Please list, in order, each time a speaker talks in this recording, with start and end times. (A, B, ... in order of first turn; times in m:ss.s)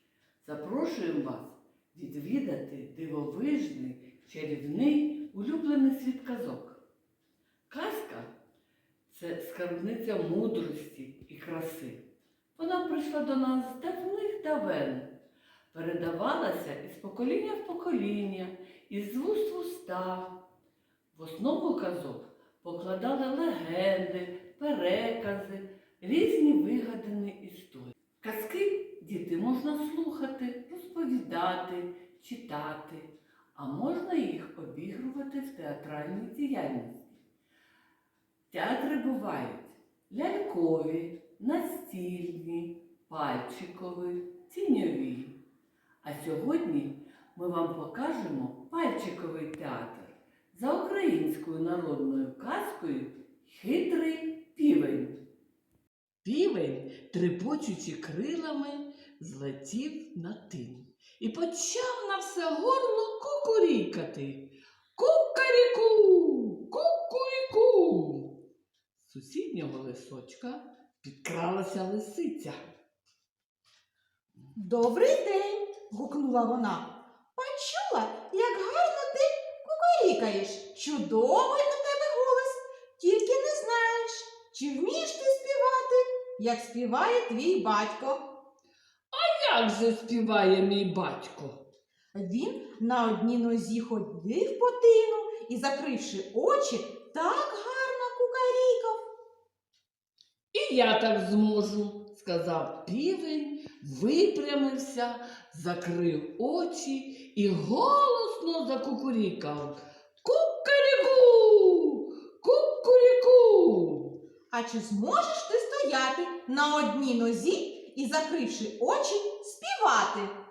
0:00.4-0:06.8 A
0:07.7-0:08.3 A
0:09.1-0:15.2 A
0:15.7-0:20.4 A
0:21.1-0:37.2 A
0:38.5-0:45.4 A
0:46.0-0:55.2 A
0:56.2-1:08.4 A
1:09.0-1:12.6 A
1:14.6-1:28.2 B
1:29.1-1:31.7 A
1:32.2-1:39.0 B
1:40.5-1:54.2 A
1:54.5-2:00.3 B